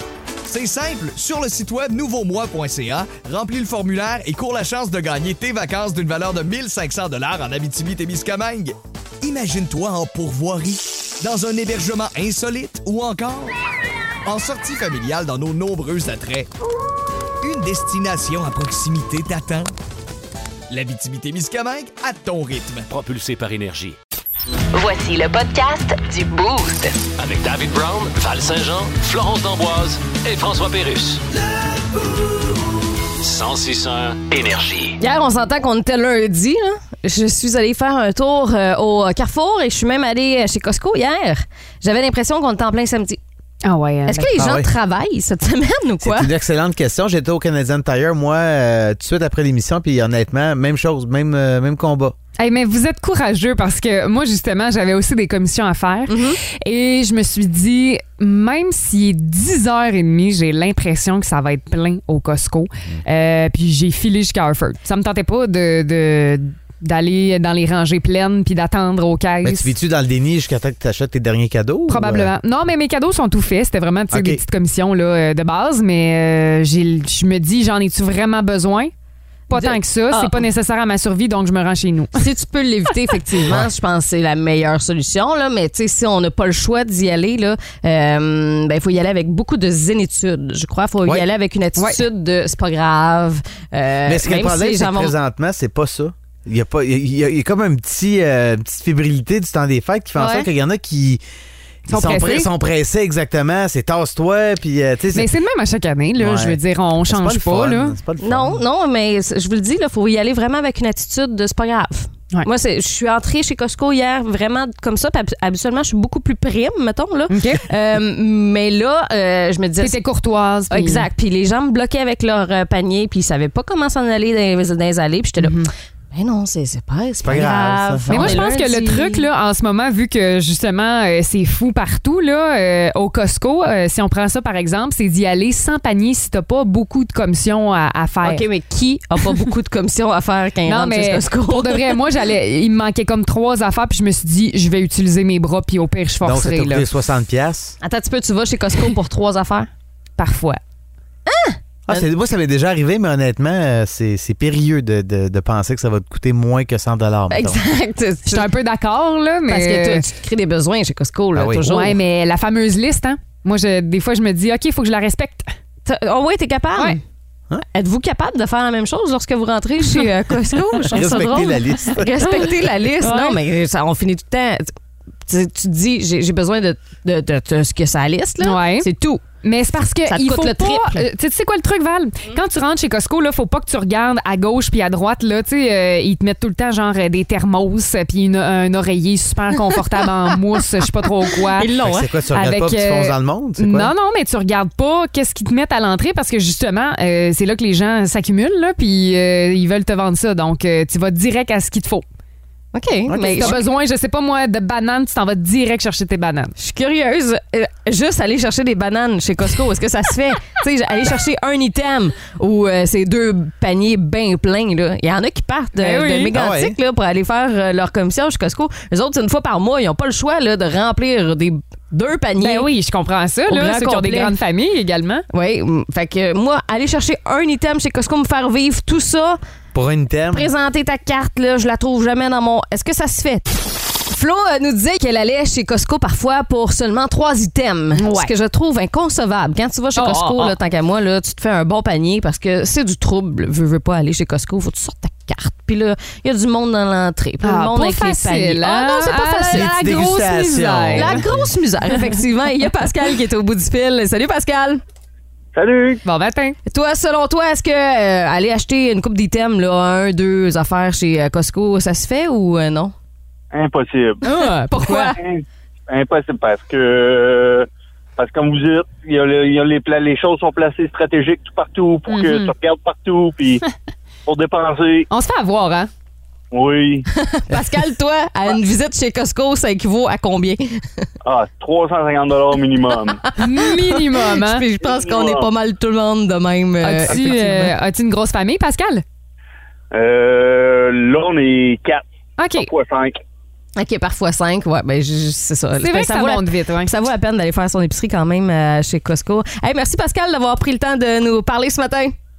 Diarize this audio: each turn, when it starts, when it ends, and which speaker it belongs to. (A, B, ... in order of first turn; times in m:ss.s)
0:00.4-0:13.5 A
0:14.2-0:16.5 A
0:17.4-0:19.7 A
0:20.7-0:22.9 A
0:22.9-0:24.0 B
0:24.7-0:27.0 C
0:27.2-0:31.2 B
0:33.2-0:35.0 B
0:35.0-0:43.2 D
0:43.6-0:44.4 E
0:44.0-0:46.3 D
0:44.4-0:44.7 F
0:46.0-0:52.2 F
0:52.4-1:09.7 E
0:56.1-0:56.4 D
1:09.4-1:12.3 F
1:11.9-1:18.9 E
1:14.1-1:14.4 F
1:19.5-1:22.2 E
1:19.5-1:20.4 D
1:22.2-1:35.1 D
1:31.8-1:32.0 E
1:34.1-1:41.2 F
1:40.2-1:40.5 E
1:41.8-1:45.3 F
1:41.9-1:42.5 E
1:45.1-1:48.0 E
1:46.2-1:48.6 F
1:48.2-2:00.0 D
1:57.3-1:57.6 E
1:59.8-2:01.1 E
2:00.7-2:09.2 D
2:05.4-2:05.7 E
2:07.2-2:08.4 F
2:08.1-2:18.4 E
2:18.2-2:22.0 D
2:20.6-2:26.9 E
2:26.2-2:27.8 F
2:27.8-2:29.7 D
2:30.2-2:30.6 E
2:31.3-2:32.1 D
2:31.9-2:37.6 F
2:37.3-2:38.5 D
2:38.3-2:40.1 E
2:39.5-2:42.0 D
2:41.3-2:41.6 F
2:41.6-2:45.5 E
2:45.8-2:47.0 D
2:47.7-2:54.7 D
2:50.9-2:52.1 F
2:52.2-2:53.4 E
2:55.3-2:59.2 D
2:58.4-3:22.0 E
3:00.0-3:01.0 D
3:11.5-3:12.0 D
3:11.8-3:13.9 F
3:22.7-3:23.6 D
3:23.1-3:23.6 F
3:23.2-3:26.5 E
3:26.6-3:42.7 D
3:35.8-3:36.3 E
3:36.3-3:36.8 F
3:42.4-3:45.2 E
3:43.5-3:44.4 D
3:45.3-3:49.4 D
3:49.7-3:50.5 F
3:50.3-3:53.5 D
3:54.1-4:10.0 D
3:57.9-3:58.3 E
3:59.9-4:00.6 E
4:07.4-4:11.2 E
4:09.5-4:11.5 F
4:11.0-4:14.8 D
4:15.5-4:16.0 G
4:16.0-4:16.6 E
4:16.7-4:22.9 D
4:23.5-4:24.2 G
4:24.2-4:25.2 D
4:24.2-4:25.1 E
4:25.0-4:27.7 G
4:28.2-4:33.6 G
4:32.1-4:32.5 E
4:34.2-4:35.1 G
4:35.1-4:35.9 E
4:36.5-4:37.1 G
4:37.1-4:41.1 D
4:41.2-4:43.2 G
4:43.4-4:47.7 D
4:43.4-4:44.7 E
4:44.8-4:45.5 G
4:46.8-4:49.0 E
4:49.9-4:52.0 G
4:52.4-4:52.7 E
4:52.6-4:53.2 G
4:53.8-5:02.2 D
4:55.8-4:56.9 E